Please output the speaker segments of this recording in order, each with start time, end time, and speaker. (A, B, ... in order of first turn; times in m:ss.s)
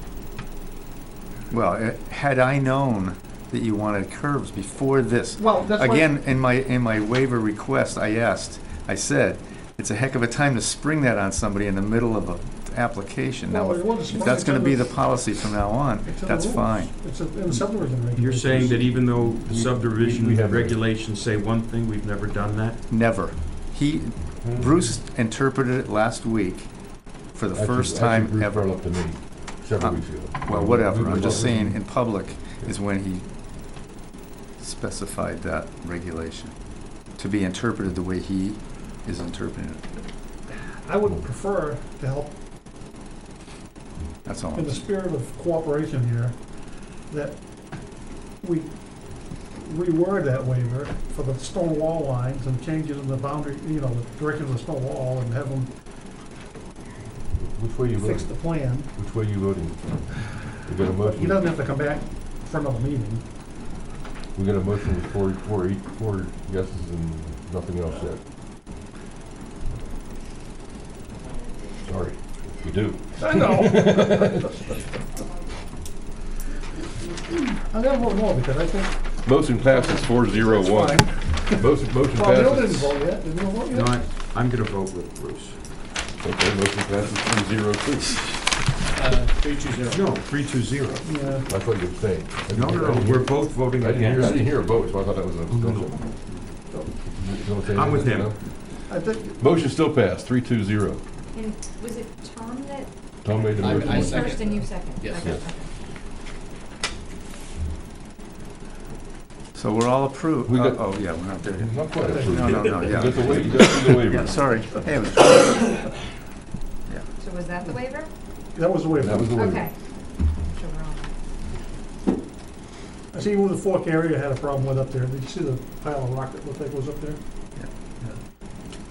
0:01.5-0:16.9 A
0:05.4-0:06.2 B
0:13.5-0:15.3 B
0:16.0-0:19.1 B
0:17.8-0:22.8 C
0:19.4-0:20.8 D
0:22.9-0:28.9 A
0:24.4-0:24.7 D
0:27.5-0:32.7 D
0:29.8-0:33.3 A
0:34.6-0:39.9 A
0:40.8-0:42.4 B
0:44.2-0:44.8 A
0:44.5-0:46.5 B
0:47.0-0:47.4 B
0:48.4-0:55.8 B
0:57.4-1:01.5 D
0:58.0-0:58.9 B
1:01.1-1:03.2 B
1:04.3-1:08.2 D
1:11.8-1:14.5 D
1:13.2-1:14.3 B
1:17.4-1:19.0 B
1:19.2-1:23.0 D
1:20.3-1:24.0 B
1:23.7-1:25.6 C
1:26.2-1:28.6 D
1:28.9-1:30.0 E
1:29.9-1:31.1 C
1:31.0-1:31.4 B
1:31.4-1:36.3 D
1:32.5-1:34.6 C
1:35.5-1:36.4 C
1:37.0-1:38.5 D
1:37.7-1:38.3 C
1:38.9-1:39.4 B
1:39.4-1:41.0 D
1:41.3-1:42.9 F
1:43.2-1:45.4 D
1:43.6-1:45.7 F
1:43.6-1:45.4 E
1:49.6-1:55.8 A
1:50.4-1:50.8 D
1:51.6-1:54.4 D
1:52.1-1:52.8 B
1:57.2-1:58.1 F
1:58.5-1:59.4 B
1:59.0-1:59.7 D
1:59.3-1:59.7 F
2:00.3-2:01.1 F
2:03.1-2:07.2 B